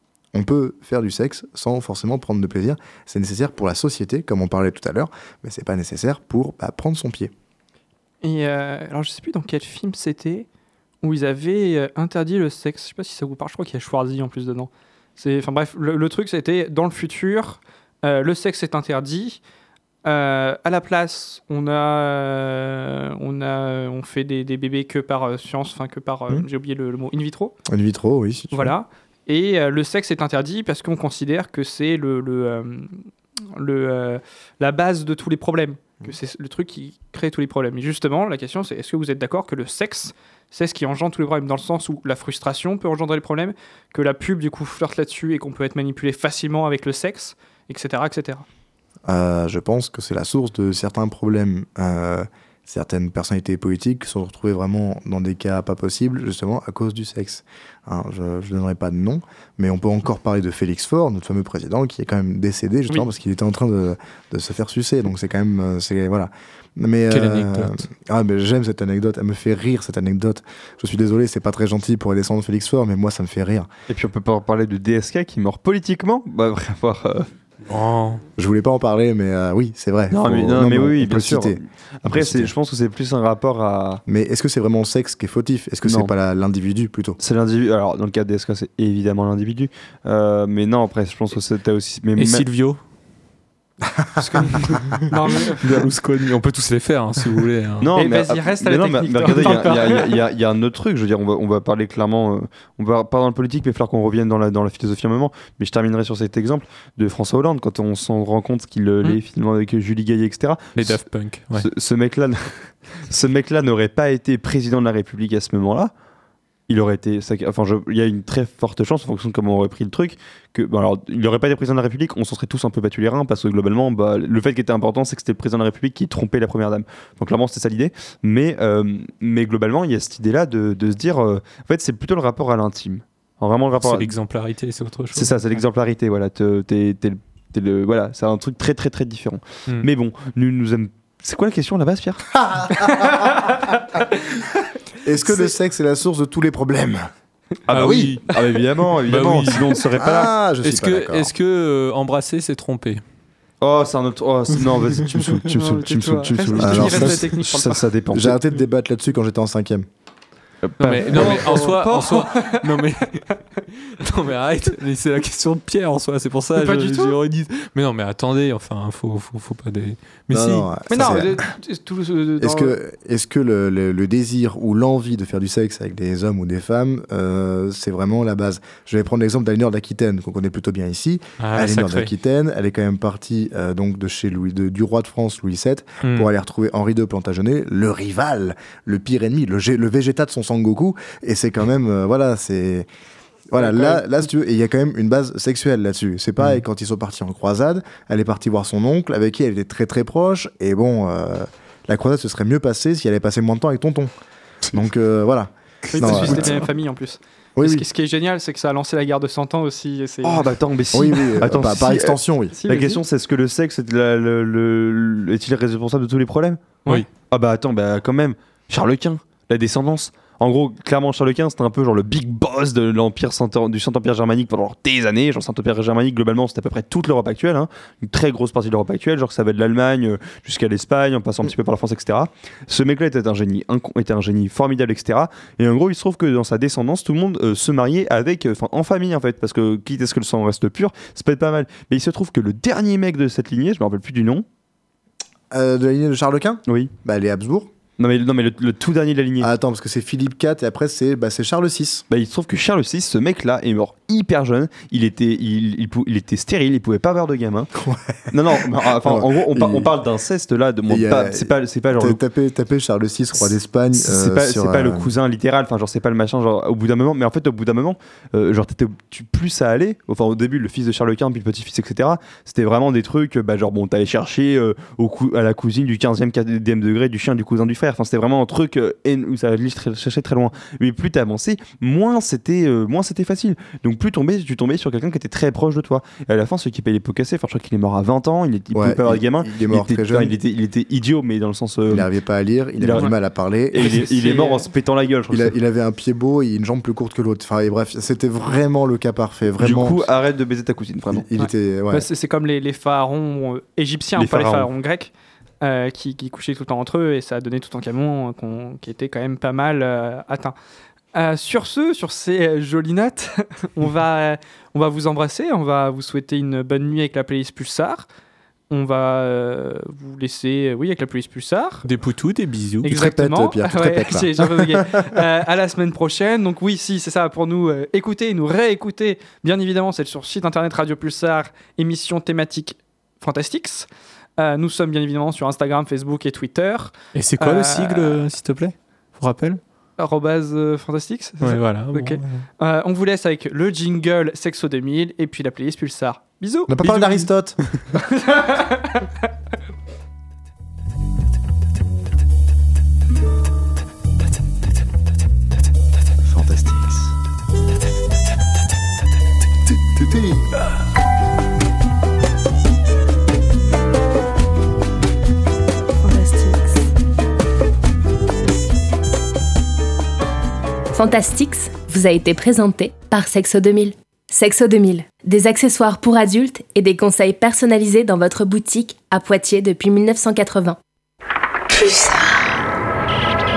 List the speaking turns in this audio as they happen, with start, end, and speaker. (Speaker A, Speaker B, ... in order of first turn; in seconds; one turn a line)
Speaker A: 0.3-7.3
Speaker B: 8.2-10.5
Speaker B: 11.0-19.4
Speaker B: 20.1-27.6
Speaker A: 27.7-28.7
Speaker B: 28.5-33.0
Speaker B: 33.5-48.5
Speaker A: 49.1-73.7
Speaker C: 67.1-67.8
Speaker D: 73.9-77.3
Speaker C: 77.7-78.2
Speaker A: 78.4-82.5
Speaker D: 80.1-84.0
Speaker A: 84.1-87.2
Speaker D: 85.8-86.1
Speaker D: 87.2-92.5
Speaker C: 92.2-92.8
Speaker C: 94.2-97.9
Speaker B: 95.1-95.6
Speaker D: 97.8-111.0
Speaker B: 98.0-100.1
Speaker C: 110.8-111.7
Speaker D: 111.5-115.9
Speaker D: 116.7-134.1
Speaker C: 133.8-135.4
Speaker D: 135.1-142.4
Speaker A: 142.4-143.3
Speaker B: 143.0-143.7
Speaker A: 145.0-147.1
Speaker D: 147.7-150.3
Speaker C: 147.7-148.4
Speaker A: 147.7-148.1
Speaker C: 149.1-149.8
Speaker A: 150.0-151.3
Speaker C: 150.6-153.0
Speaker D: 153.6-158.4
Speaker B: 155.5-157.8
Speaker A: 156.6-157.2
Speaker A: 158.1-159.9
Speaker D: 160.6-161.6
Speaker C: 160.8-171.1
Speaker B: 161.1-162.8
Speaker B: 166.6-167.2
Speaker A: 170.3-171.4
Speaker B: 170.9-172.8
Speaker A: 172.4-192.9
Speaker C: 181.4-182.1
Speaker C: 186.0-186.3
Speaker A: 193.5-204.1
Speaker B: 193.6-194.0
Speaker A: 204.7-206.5
Speaker B: 205.9-210.4
Speaker C: 206.0-206.6
Speaker A: 207.6-207.8
Speaker D: 210.2-244.4
Speaker A: 210.9-212.6
Speaker B: 212.6-213.0
Speaker A: 245.5-247.7
Speaker D: 246.7-246.9
Speaker D: 248.0-249.5
Speaker A: 249.4-252.1
Speaker D: 252.1-257.7
Speaker A: 257.8-259.9
Speaker D: 258.3-262.2
Speaker A: 260.9-265.1
Speaker D: 263.9-292.1
Speaker A: 288.7-290.3
Speaker A: 291.9-294.1
Speaker D: 292.8-293.1
Speaker D: 293.7-295.5
Speaker B: 293.8-294.6
Speaker A: 295.3-300.0
Speaker D: 299.6-301.3
Speaker A: 301.1-302.1
Speaker B: 301.4-310.6
Speaker D: 304.2-304.7
Speaker B: 311.1-318.1
Speaker B: 318.7-321.9
Speaker C: 321.8-322.9
Speaker B: 322.8-333.9
Speaker A: 322.8-325.2
Speaker B: 334.4-338.2
Speaker C: 337.1-339.6
Speaker B: 340.0-347.3
Speaker C: 341.4-342.4
Speaker A: 346.7-347.6
Speaker B: 348.1-349.1
Speaker A: 356.2-357.1
Speaker A: 359.7-360.5
Speaker E: 366.1-366.7
Speaker E: 370.9-380.8
Speaker E: 381.7-382.3